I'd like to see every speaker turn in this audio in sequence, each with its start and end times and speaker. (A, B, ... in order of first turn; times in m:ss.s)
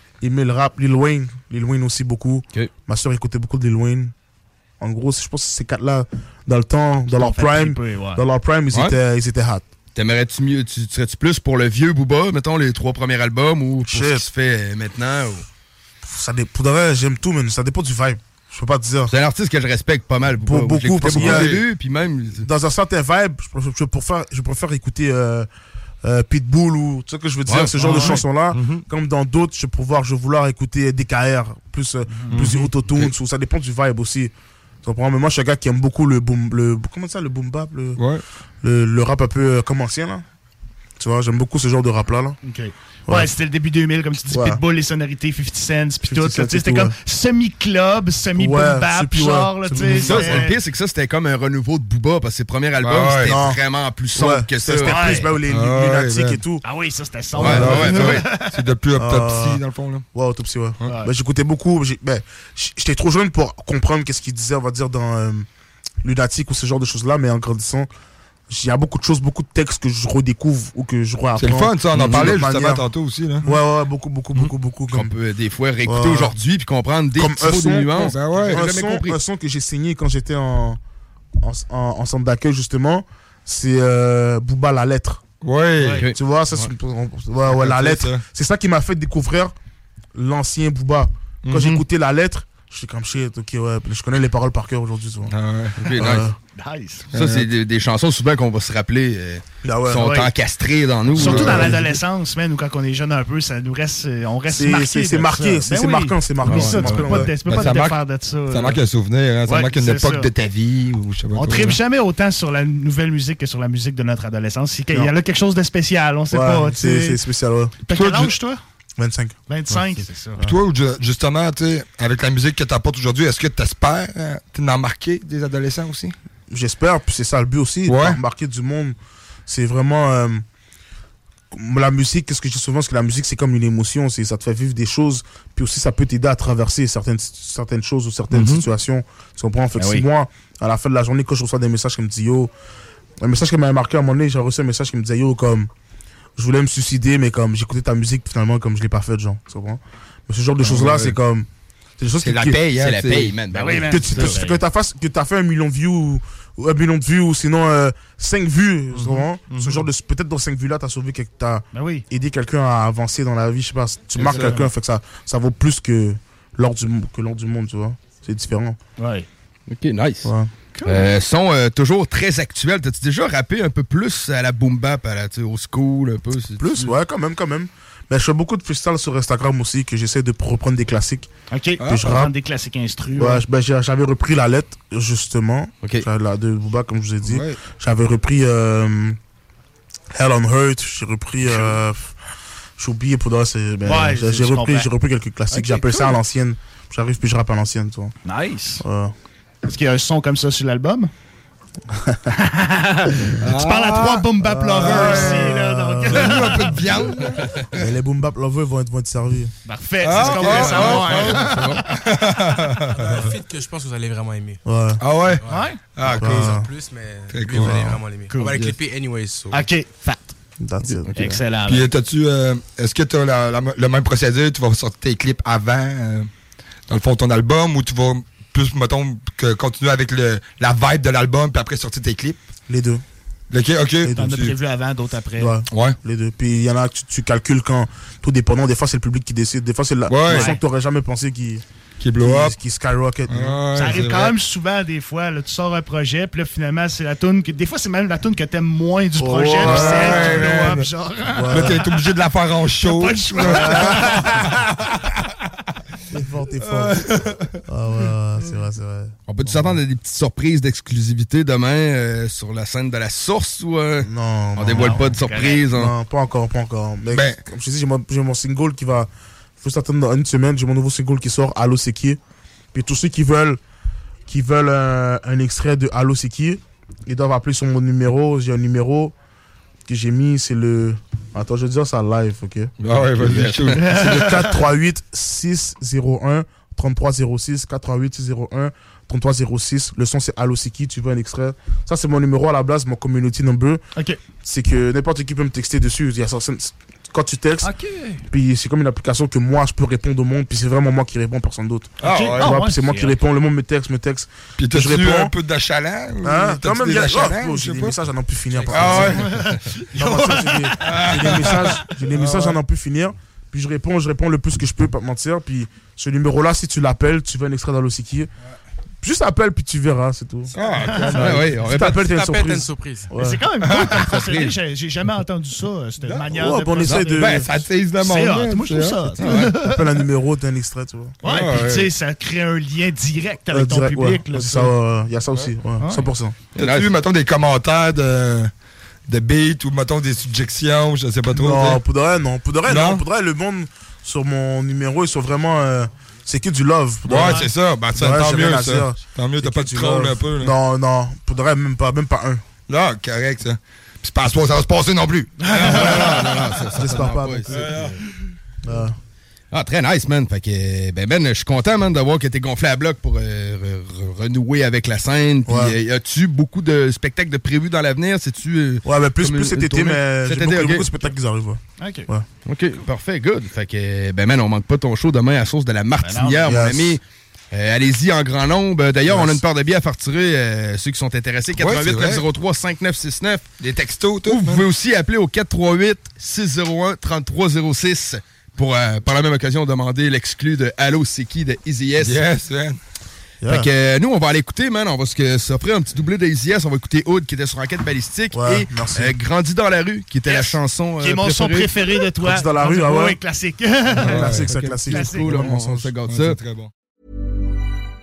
0:00.2-0:04.1 A
0:04.8-0:09.6 A
0:07.1-0:08.2 B
0:10.0-0:15.5 C
0:13.8-0:14.3 A
0:16.0-0:19.1 A
0:19.1-0:22.5 C
0:20.4-0:21.6 A
0:21.0-0:21.6 D
0:22.4-0:25.5 A
0:26.0-0:34.3 A
0:27.5-0:27.8 C
0:27.8-0:28.2 B
0:27.8-0:28.8 D
0:32.1-0:32.5 B
0:32.3-0:33.1 D
0:34.8-0:38.0 A
0:38.0-0:38.2 D
0:38.6-0:40.2 A
0:41.0-0:42.4 A
0:42.4-0:50.6 B
0:43.1-0:43.3 A
0:44.3-0:44.6 A
0:46.0-0:47.0 A
0:48.3-0:50.5 A
0:49.8-0:55.3 C
0:49.8-0:50.1 D
0:52.8-0:53.4 D
0:53.2-0:56.6 A
0:54.8-0:55.3 B
0:55.5-0:56.4 D
0:56.6-0:58.6 B
0:57.4-1:00.0 D
0:57.4-0:58.3 C
0:59.0-1:05.5 A
1:00.8-1:01.1 B
1:06.0-1:07.9 A
1:08.5-1:12.9 A
1:11.4-1:13.5 D
1:11.9-1:12.4 C
1:13.4-1:15.2 A
1:14.9-1:19.2 C
1:15.8-1:16.4 A
1:17.2-1:20.8 A
1:18.0-1:18.6 D
1:21.4-1:25.2 A
1:25.4-1:26.1 D
1:25.9-1:26.7 C
1:26.1-1:29.5 A
1:27.4-1:28.2 D
1:30.2-1:35.3 A
1:31.4-1:31.8 D
1:35.3-1:36.0 D
1:35.8-1:36.3 C
1:36.0-1:36.4 A
1:36.6-1:37.1 B
1:37.1-1:41.8 C
1:37.1-1:37.5 D
1:39.6-1:40.2 A
1:39.9-1:40.3 B
1:41.1-1:48.8 B
1:41.2-1:41.7 D
1:41.3-1:42.0 A
1:44.5-1:47.5 A
1:46.5-1:51.8 D
1:49.4-1:50.3 B
1:51.4-1:57.2 B
1:56.3-1:57.8 A
1:57.8-1:58.6 B
1:57.9-1:58.4 D
1:59.0-1:59.4 A
1:59.5-2:00.5 B
2:00.4-2:06.1 D
2:06.5-2:10.4 A
2:07.9-2:08.2 D
2:11.5-2:22.5 A
2:18.3-2:18.7 C
2:19.8-2:20.1 B
2:23.2-2:25.7 A
2:26.4-2:31.5 A
2:30.6-2:31.2 D
2:32.0-2:32.6 A
2:32.2-2:33.4 D
2:32.7-2:34.4 C
2:33.5-2:34.6 B
2:33.8-2:48.8 A
2:38.9-2:39.2 B
2:39.5-2:39.9 D
2:41.7-2:42.1 B
2:44.2-2:44.7 B
2:49.0-2:49.3 B
2:49.7-2:50.3 C
2:50.2-2:50.5 A
2:50.7-2:51.1 B
2:50.8-2:56.9 C
2:56.6-3:01.3 A
3:01.5-3:03.4 B
3:01.8-3:02.3 A
3:01.8-3:02.1 D
3:03.2-3:09.2 A
3:07.2-3:07.6 D
3:10.1-3:12.2 A
3:11.4-3:11.7 B
3:12.8-3:18.2 A
3:13.8-3:14.9 B
3:15.5-3:16.2 B
3:18.2-3:18.8 B
3:18.8-3:19.1 A
3:19.6-3:21.1 B
3:22.4-3:27.1 B
3:23.4-3:25.6 D
3:24.4-3:26.7 A
3:26.1-3:27.9 D
3:27.7-3:29.5 A
3:29.6-3:31.9 B
3:30.0-3:33.1 D
3:30.2-3:31.1 E
3:30.8-3:31.8 C
3:32.9-3:34.6 E
3:34.6-3:35.0 A
3:35.0-3:36.6 D
3:35.2-3:39.7 E
3:35.4-3:35.8 B
3:36.1-3:36.7 A
3:37.3-3:38.0 D
3:37.5-3:38.0 A
3:38.3-3:38.6 B
3:39.5-3:40.4 B
3:40.6-3:41.4 A
3:40.9-3:41.2 C
3:41.2-3:41.9 B
3:41.6-3:46.3 D
3:46.9-3:52.4 D
3:52.7-3:53.0 A
3:53.5-3:54.5 D
3:54.0-3:54.3 A
3:54.1-3:55.6 B
3:55.4-4:01.6 A
3:55.7-3:56.0 D
4:00.1-4:00.5 D
4:00.3-4:00.6 B
4:02.0-4:02.6 D
4:02.2-4:03.6 A
4:03.3-4:04.3 D
4:03.7-4:11.8 B
4:09.2-4:10.5 A
4:09.6-4:10.9 D
4:11.2-4:11.8 A
4:11.5-4:14.4 D
4:12.8-4:14.6 B
4:13.4-4:14.1 A
4:16.1-4:17.1 A
4:16.7-4:17.5 D
4:17.7-4:19.8 A
4:19.3-4:26.0 C
4:24.0-4:29.1 A
4:24.7-4:25.6 B
4:27.1-4:27.4 D
4:29.6-4:32.2 A
4:32.7-4:33.6 A
4:34.3-4:39.1 A
4:39.9-4:53.8 A
4:42.8-4:43.8 D
4:43.2-4:43.7 C
4:43.7-4:44.6 B
4:54.0-4:54.2 B
4:54.4-4:57.8 A
4:57.6-4:58.2 B
4:58.3-5:05.3 A
5:02.0-5:02.6 D
5:02.0-5:03.2 B
5:04.6-5:08.0 D
5:06.2-5:09.3 A
5:08.7-5:09.4 D
5:08.8-5:10.8 B
5:09.9-5:18.3 A
5:10.8-5:12.6 D
5:19.0-5:23.5 A
5:20.5-5:21.5 D
5:20.8-5:21.4 B
5:21.1-5:22.1 C
5:21.8-5:23.1 E
5:23.1-5:27.4 B
5:23.7-5:24.6 C
5:26.0-5:26.3 D
5:26.3-5:27.5 A
5:26.9-5:29.1 D
5:28.0-5:30.1 B
5:29.2-5:29.5 C
5:29.4-5:31.2 A
5:31.2-5:31.9 D
5:31.2-5:34.7 B
5:33.5-5:36.4 A
5:35.8-5:36.1 B
5:36.6-5:36.9 C
5:36.6-5:38.5 D
5:39.1-5:41.8 D
5:41.3-5:52.4 A
5:42.7-5:43.0 D
5:47.0-5:50.6 D
5:47.2-5:47.5 B
5:52.7-5:58.0 D
5:55.5-5:58.0 C
5:56.8-5:57.8 A
5:58.6-5:59.0 A
5:59.5-6:11.1 C
6:05.5-6:05.8 A
6:08.8-6:12.3 A
6:11.8-6:12.1 B
6:12.5-6:23.5 C
6:16.0-6:16.5 B
6:16.5-6:17.0 A
6:19.0-6:19.4 A
6:21.6-6:22.2 D
6:23.6-6:24.6 D
6:24.2-6:32.2 C
6:32.0-6:32.8 D
6:33.4-6:33.7 A
6:33.5-6:41.7 C
6:38.3-6:39.2 A
6:40.3-6:45.4 B
6:42.2-6:43.2 A
6:44.0-6:46.7 D
6:44.0-6:45.9 A
6:44.9-6:46.4 C